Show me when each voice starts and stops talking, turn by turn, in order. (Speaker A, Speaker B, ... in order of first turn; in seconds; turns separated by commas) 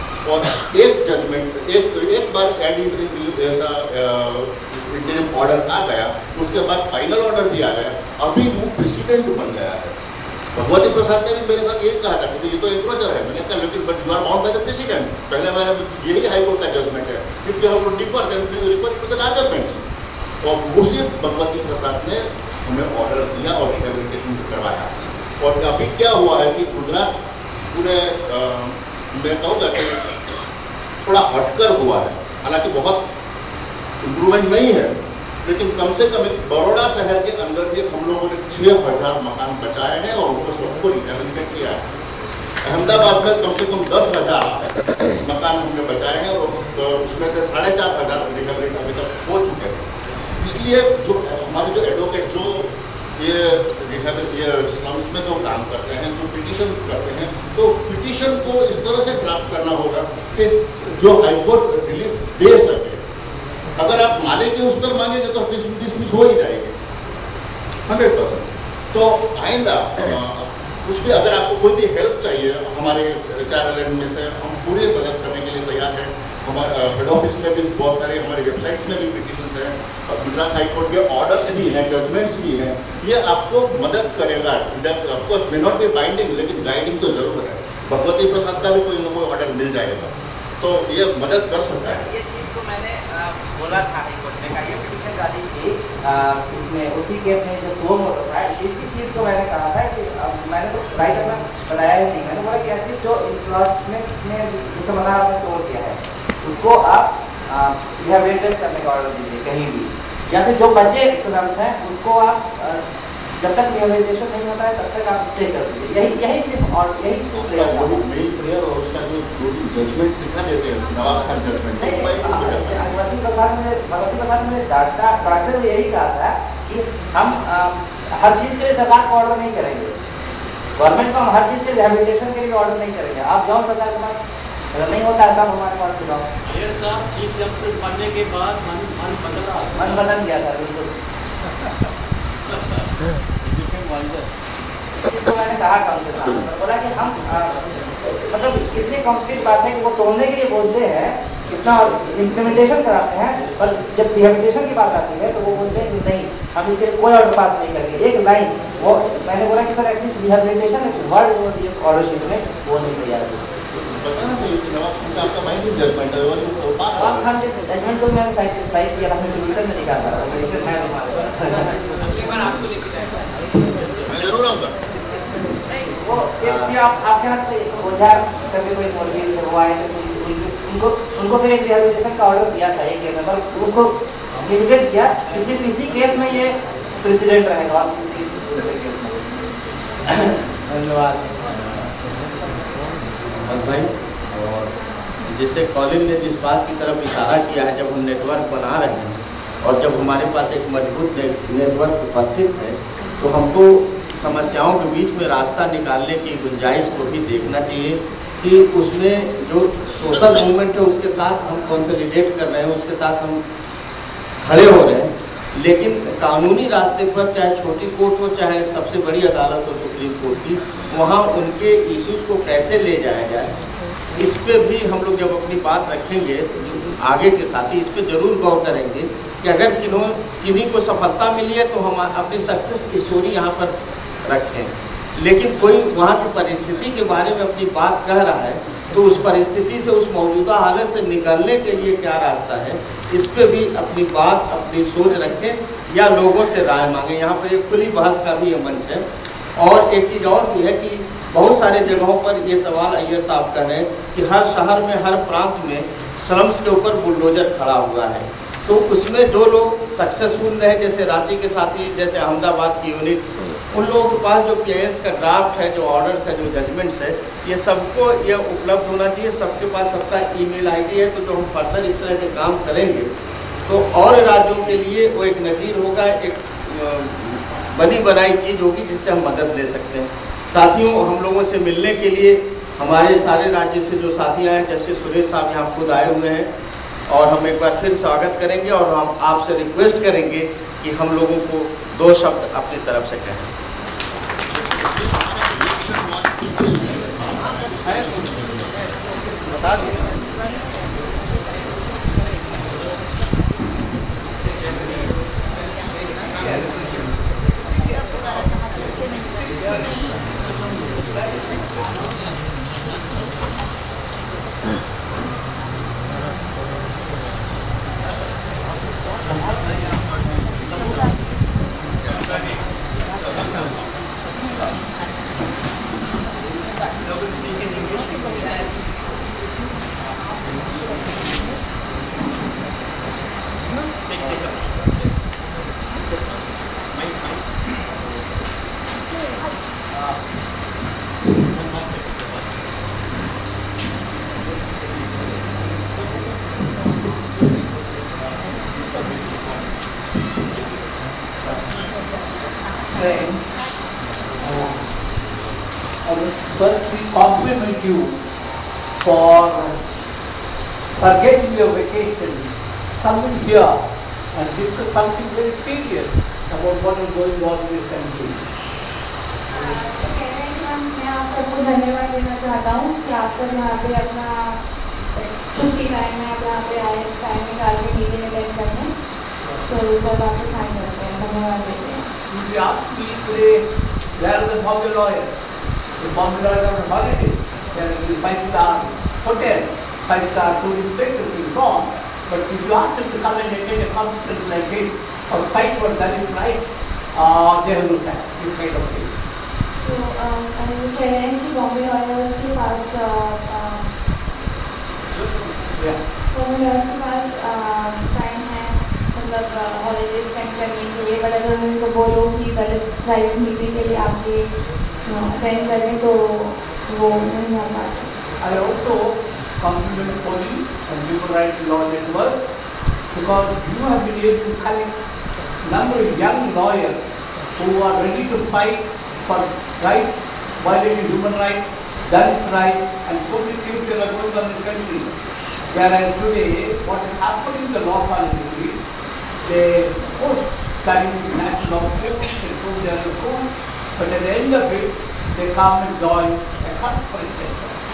Speaker A: 0.2-9.9, Speaker A: 10.5-19.9, Speaker A: 20.4-27.1, Speaker A: 27.7-30.1, Speaker A: 31.1-33.1, Speaker A: 34.0-41.9, Speaker A: 42.6-49.9, Speaker A: 50.4-63.1, Speaker A: 63.8-66.8, Speaker A: 67.9-92.0, Speaker B: 91.8-112.8, Speaker B: 113.4-118.0, Speaker A: 117.3-123.0, Speaker B: 121.8-129.9, Speaker B: 130.8-134.2, Speaker B: 134.7-136.3, Speaker C: 136.5-140.1, Speaker B: 139.8-140.9, Speaker C: 143.5-144.2, Speaker B: 145.0-163.4, Speaker A: 163.8-167.3, Speaker B: 166.9-172.4, Speaker A: 174.0-174.8, Speaker B: 175.8-183.9, Speaker D: 176.4-176.7, Speaker B: 184.4-189.2, Speaker D: 190.7-191.3, Speaker D: 193.4-194.7, Speaker D: 195.3-213.4, Speaker D: 214.4-223.5, Speaker D: 224.2-233.7, Speaker D: 234.3-249.0, Speaker D: 249.6-273.1, Speaker D: 273.7-286.5, Speaker D: 287.1-293.5, Speaker A: 294.5-298.3, Speaker E: 299.2-300.1, Speaker E: 304.7-305.0, Speaker E: 306.1-306.8, Speaker E: 307.8-312.1, Speaker E: 352.9-353.4, Speaker E: 354.4-354.8, Speaker E: 356.1-358.1, Speaker E: 359.0-359.8, Speaker E: 361.0-362.5, Speaker E: 363.0-363.8, Speaker E: 364.3-368.4, Speaker F: 369.5-374.6, Speaker F: 375.1-378.9, Speaker F: 379.6-382.1, Speaker E: 382.3-383.6, Speaker E: 384.2-385.3, Speaker E: 386.0-396.6, Speaker E: 397.1-399.1, Speaker F: 399.8-403.9, Speaker E: 405.2-406.0, Speaker F: 406.3-414.5, Speaker F: 415.0-418.1, Speaker E: 418.4-422.4, Speaker E: 423.1-424.9, Speaker E: 425.6-427.0, Speaker E: 427.6-435.1, Speaker E: 435.7-438.8, Speaker E: 439.4-447.7